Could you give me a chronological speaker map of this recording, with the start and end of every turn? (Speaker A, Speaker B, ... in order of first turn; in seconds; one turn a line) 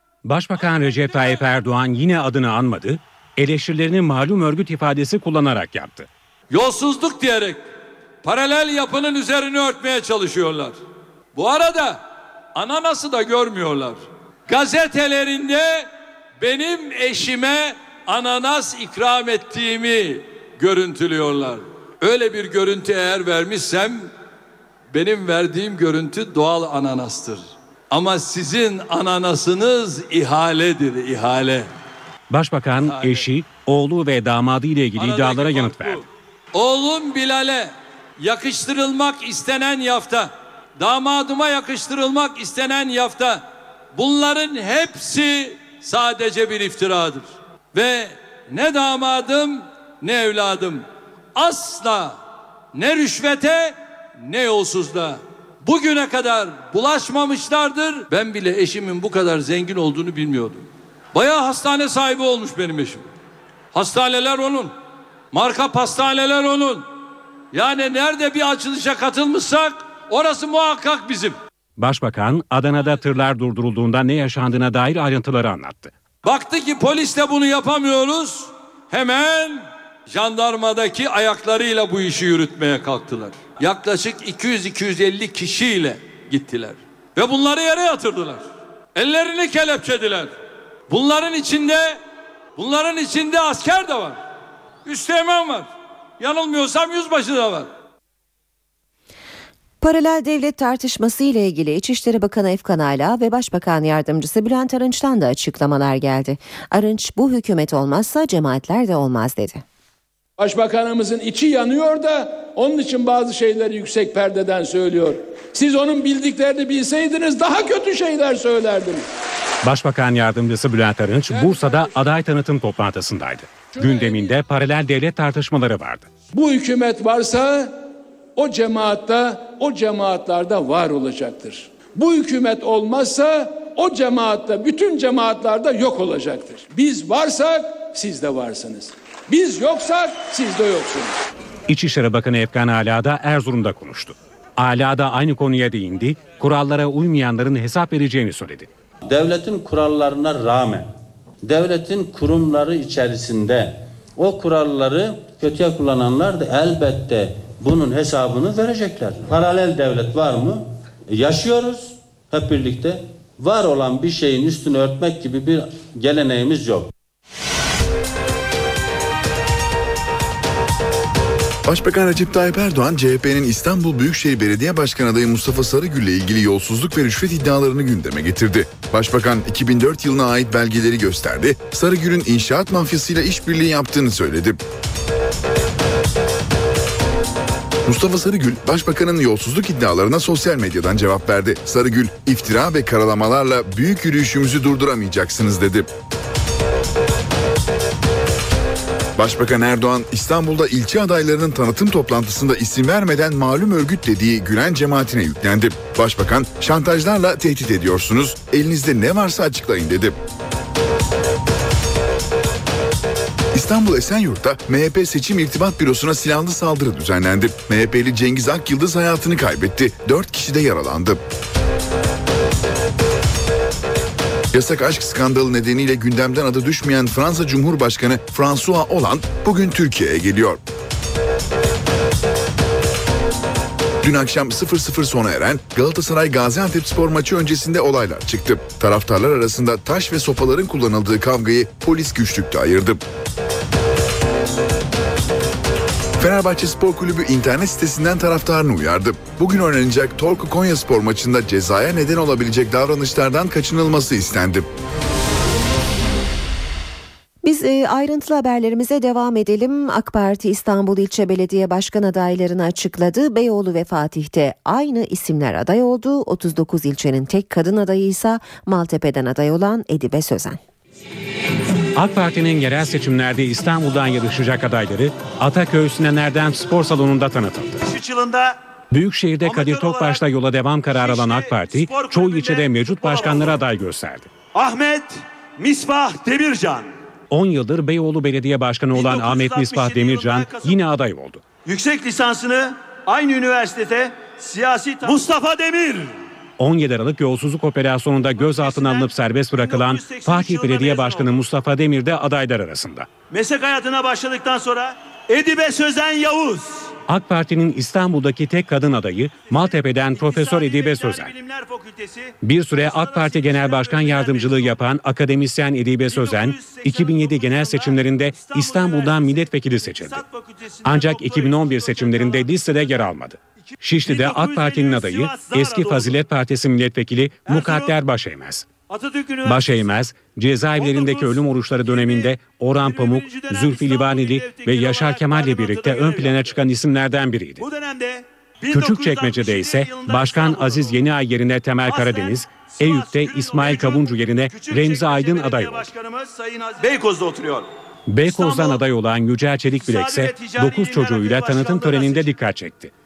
Speaker A: 0.2-6.1
Speaker B: 6.5-7.7
Speaker B: 8.2-10.8
Speaker B: 11.3-12.0
Speaker B: 12.6-15.9
Speaker B: 16.4-24.1
Speaker B: 24.9-31.7
Speaker A: 32.3-36.0
Speaker B: 32.9-33.2
Speaker B: 35.0-52.2
Speaker B: 52.8-63.1
Speaker B: 63.7-64.7
Speaker B: 65.3-66.9
Speaker B: 67.5-71.4
Speaker A: 71.8-75.9
Speaker B: 76.2-90.3
Speaker B: 90.9-92.0
Speaker B: 92.6-94.2
Speaker B: 94.8-97.7
Speaker C: 99.8-109.6
Speaker D: 110.4-119.0
Speaker A: 119.6-126.1
Speaker D: 121.3-121.9
Speaker D: 123.8-124.3
Speaker D: 126.3-127.8
Speaker D: 128.4-141.1
Speaker A: 141.7-148.7
Speaker E: 149.1-150.9
Speaker E: 151.4-166.9
Speaker F: 171.7-184.6
Speaker F: 187.8-195.9
Speaker F: 199.2-210.2
Speaker F: 213.5-221.2
Speaker F: 224.5-230.6
Speaker F: 234.0-243.0
Speaker F: 246.2-254.7
Speaker C: 257.4-270.6
Speaker A: 272.0-277.8
Speaker G: 277.8-278.6
Speaker A: 278.9-284.3
Speaker G: 279.4-280.2
Speaker G: 280.9-283.6
Speaker G: 284.5-286.9
Speaker A: 287.3-291.4
Speaker G: 288.9-290.8
Speaker G: 291.6-296.2
Speaker A: 296.6-303.1
Speaker G: 298.4-301.3
Speaker G: 303.3-306.9
Speaker A: 307.1-311.3
Speaker G: 309.5-314.8
Speaker A: 312.4-320.2
Speaker G: 316.1-322.4
Speaker A: 320.8-328.7
Speaker G: 324.0-326.1
Speaker G: 327.5-327.9
Speaker G: 328.9-329.8
Speaker A: 329.4-337.6
Speaker G: 330.8-336.6
Speaker G: 337.6-341.0
Speaker A: 338.7-345.9
Speaker G: 341.9-347.7
Speaker A: 348.1-352.9
Speaker G: 348.3-348.8
Speaker G: 349.8-352.3